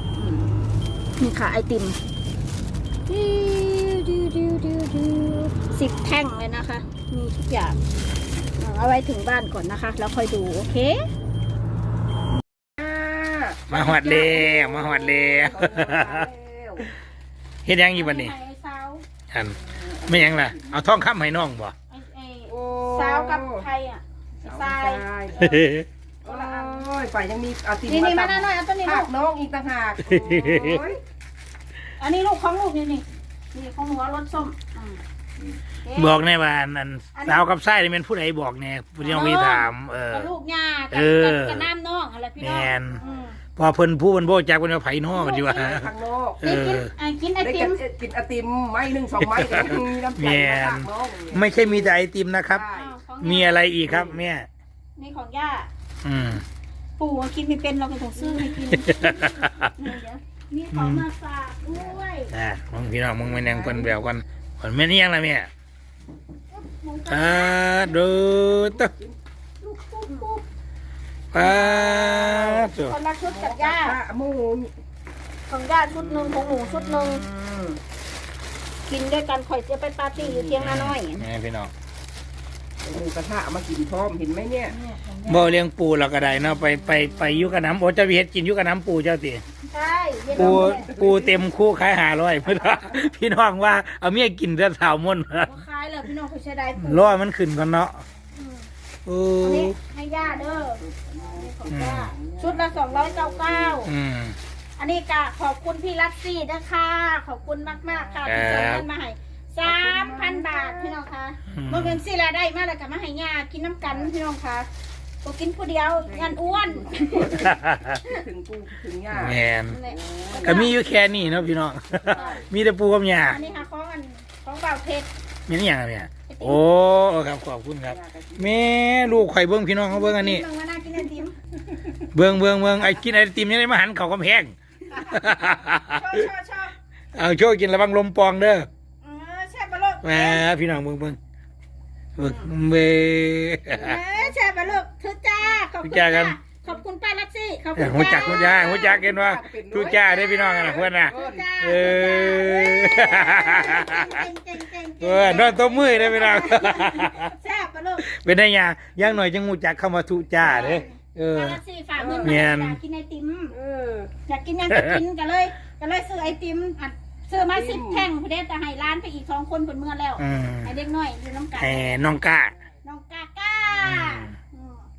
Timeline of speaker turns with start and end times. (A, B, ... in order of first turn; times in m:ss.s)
0:00.2-0:00.7 A
0:01.2-0:02.0 A
0:03.1-0:07.8 A
0:08.6-0:11.1 A
0:12.8-0:16.9 B
0:13.7-0:16.3 C
0:13.7-0:14.5 A
0:17.6-0:18.3 C
0:17.9-0:19.0 A
0:19.3-0:21.7 C
0:19.6-0:20.8 B
0:21.9-0:25.0 A
0:22.5-0:23.7 B
0:24.4-0:25.7 B
0:25.4-0:25.9 C
0:26.2-0:26.9 A
0:26.2-0:31.0 B
0:27.9-0:29.1 A
0:30.1-0:30.8 C
0:32.0-0:35.0 A
0:35.8-0:36.2 A
0:36.0-0:40.3 C
0:37.2-0:37.4 A
0:39.0-0:43.4 A
0:40.9-0:41.7 C
0:42.4-0:43.0 C
0:43.6-0:46.9 C
0:45.1-0:45.8 A
0:45.6-0:46.4 B
0:46.4-0:47.8 A
0:47.4-0:51.9 B
0:49.4-0:52.7 C
0:52.5-0:52.9 B
0:52.7-0:53.7 A
0:53.2-0:54.5 C
0:53.9-0:54.2 B
0:55.0-0:55.7 A
0:56.0-0:56.4 C
0:57.0-1:02.3 A
0:58.7-0:59.7 C
1:00.7-1:01.0 C
1:02.3-1:05.5 C
1:03.3-1:03.9 B
1:06.5-1:08.0 A
1:07.1-1:08.9 C
1:08.5-1:09.2 B
1:09.6-1:10.4 A
1:11.3-1:13.0 C
1:11.4-1:14.0 A
1:12.2-1:12.7 B
1:13.2-1:14.8 B
1:15.5-1:17.3 A
1:16.0-1:17.8 B
1:18.9-1:21.3 A
1:20.2-1:20.6 B
1:20.6-1:21.7 C
1:22.8-1:24.8 B
1:24.9-1:25.4 A
1:25.2-1:29.4 C
1:29.7-1:30.9 A
1:30.4-1:35.6 C
1:30.4-1:31.1 B
1:32.6-1:32.9 B
1:35.4-1:37.2 A
1:36.8-1:38.0 C
1:38.4-1:38.7 A
1:39.0-1:39.8 C
1:39.4-1:43.9 A
1:40.6-1:43.8 B
1:41.7-1:42.1 C
1:43.8-1:44.4 C
1:44.8-1:54.7 A
1:48.3-1:48.9 C
1:49.6-1:51.0 B
1:51.5-1:52.0 C
1:55.2-1:57.4 A
1:56.0-2:00.7 B
1:57.4-1:58.0 C
1:59.1-1:59.8 C
1:59.7-2:00.8 A
2:00.4-2:03.4 C
2:02.1-2:02.4 A
2:03.2-2:05.1 A
2:05.5-2:10.4 C
2:06.3-2:06.6 A
2:07.9-2:08.7 B
2:09.9-2:11.4 A
2:12.1-2:16.2 C
2:14.9-2:16.7 A
2:17.2-2:18.7 C
2:19.0-2:20.5 A
2:20.0-2:21.2 C
2:22.2-2:24.0 C
2:22.2-2:22.5 A
2:23.7-2:29.0 A
2:25.8-2:26.4 C
2:27.8-2:34.2 C
2:28.2-2:31.5 B
2:29.8-2:38.1 A
2:35.0-2:37.3 C
2:38.0-2:41.6 C
2:40.4-2:43.6 A
2:42.0-2:42.5 B
2:42.2-2:42.8 C
2:43.5-2:44.1 B
2:44.3-2:52.0 A
2:44.7-2:45.0 C
2:47.4-2:48.1 B
2:50.2-2:50.7 C
2:51.6-2:52.5 C
2:52.8-2:54.8 A
2:53.7-2:54.4 C